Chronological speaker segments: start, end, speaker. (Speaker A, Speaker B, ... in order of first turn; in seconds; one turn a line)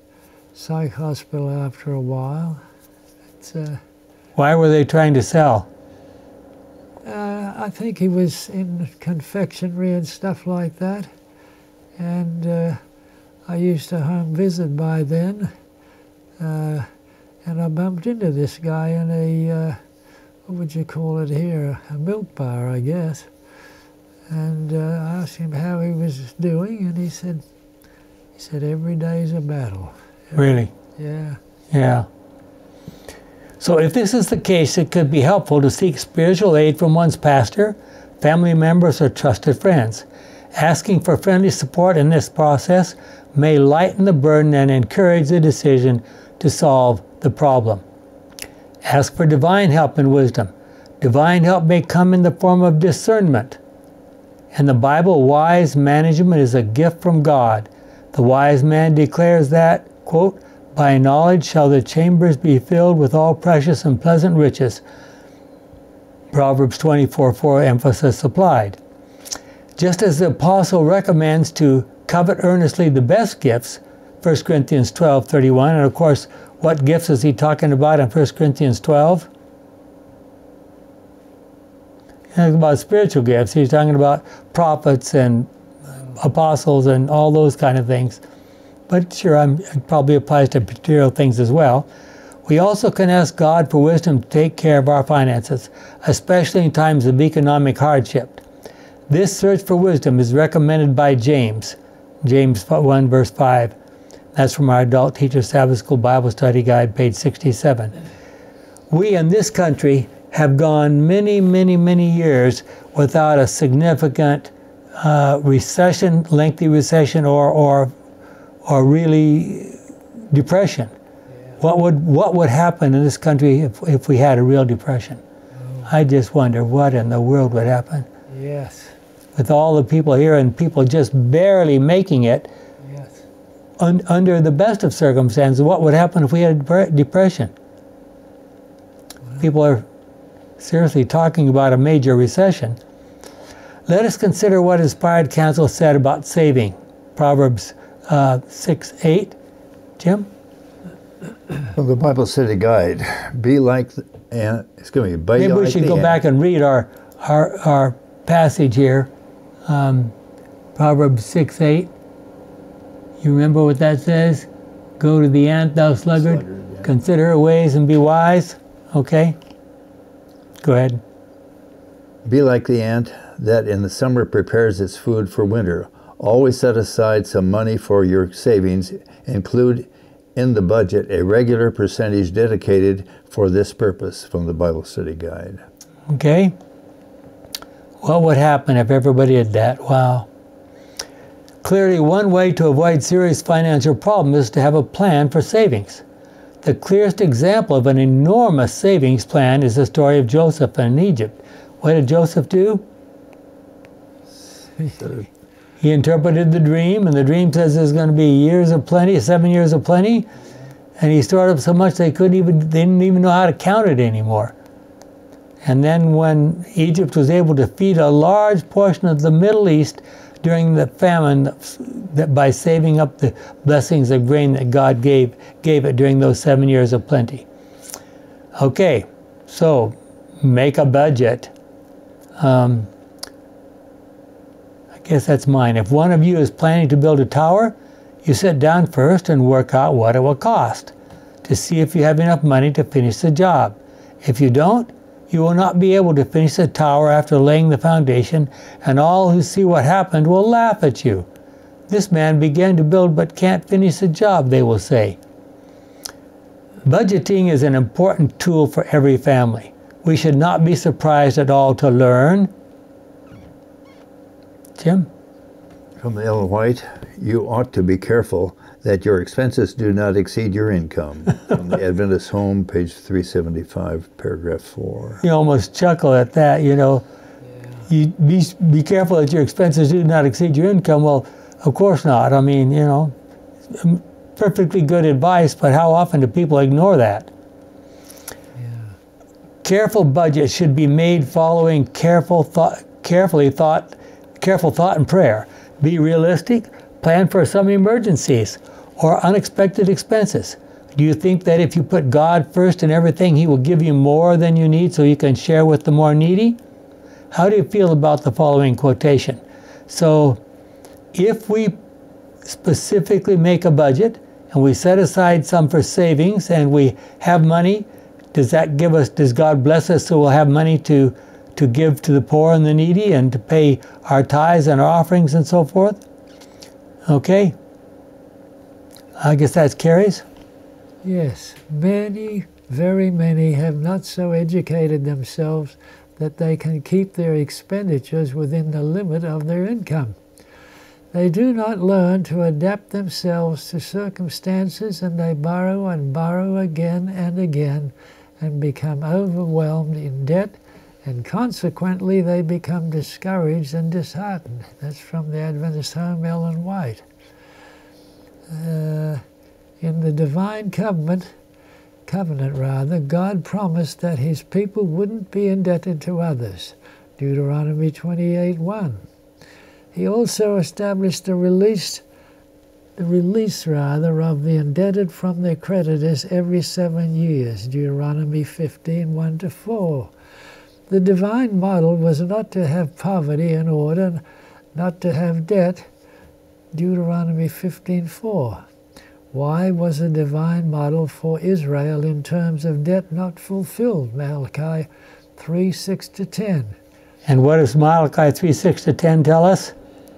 Speaker A: 0.5-2.6
Speaker A: 3.4-3.8
Speaker B: 4.3-5.7
Speaker A: 7.0-11.1
Speaker A: 12.0-12.8
Speaker A: 13.4-15.5
Speaker A: 16.4-16.9
Speaker A: 17.4-19.8
Speaker A: 20.5-23.3
Speaker A: 24.3-27.4
Speaker A: 28.4-31.4
Speaker B: 30.4-30.7
Speaker B: 31.7-32.1
Speaker B: 33.6-47.8
Speaker B: 48.8-53.6
Speaker B: 54.5-64.8
Speaker B: 66.3-68.8
Speaker B: 69.8-79.3
Speaker B: 82.3-85.5
Speaker B: 86.1-88.2
Speaker B: 88.9-91.9
Speaker B: 92.5-98.4
Speaker B: 99.1-103.7
Speaker B: 104.3-107.9
Speaker B: 108.9-117.9
Speaker B: 118.6-119.8
Speaker B: 120.3-120.9
Speaker B: 121.6-125.2
Speaker A: 125.5-125.9
Speaker B: 125.8-128.1
Speaker A: 128.3-128.9
Speaker B: 129.3-132.5
Speaker A: 132.8-133.2
Speaker B: 133.8-137.5
Speaker B: 139.4-139.8
Speaker B: 140.6-142.8
Speaker B: 143.9-149.3
Speaker B: 150.0-150.3
Speaker C: 151.7-156.2
Speaker B: 155.4-159.1
Speaker B: 159.7-160.1
Speaker B: 160.8-161.9
Speaker B: 163.2-164.5
Speaker B: 165.0-169.3
Speaker C: 166.2-166.9
Speaker B: 170.6-171.0
Speaker C: 172.2-185.6
Speaker B: 186.1-186.5
Speaker B: 188.0-190.3
Speaker B: 191.6-196.0
Speaker B: 196.6-202.8
Speaker A: 204.8-205.1
Speaker B: 205.8-210.3
Speaker B: 211.0-214.5
Speaker B: 215.6-227.4
Speaker B: 228.6-231.5
Speaker B: 232.4-232.9
Speaker B: 235.0-240.9
Speaker B: 241.4-251.3
Speaker B: 251.9-255.2
Speaker B: 256.8-262.5
Speaker B: 264.8-265.1
Speaker C: 266.0-275.2
Speaker B: 275.2-277.0
Speaker B: 277.9-283.1
Speaker B: 283.7-287.3
Speaker A: 288.5-288.9
Speaker B: 289.6-306.6
Speaker B: 307.3-310.4
Speaker B: 311.1-311.8
Speaker B: 312.4-326.0
Speaker B: 327.1-327.5
Speaker B: 329.2-330.2
Speaker A: 331.0-340.1
Speaker A: 341.1-357.0
Speaker A: 358.5-359.2
Speaker A: 359.8-361.3
Speaker A: 362.1-369.0
Speaker A: 369.9-372.0
Speaker A: 373.0-380.1
Speaker A: 380.9-384.2
Speaker A: 384.7-385.9
Speaker A: 386.7-388.6
Speaker A: 389.3-396.7
Speaker B: 397.3-399.7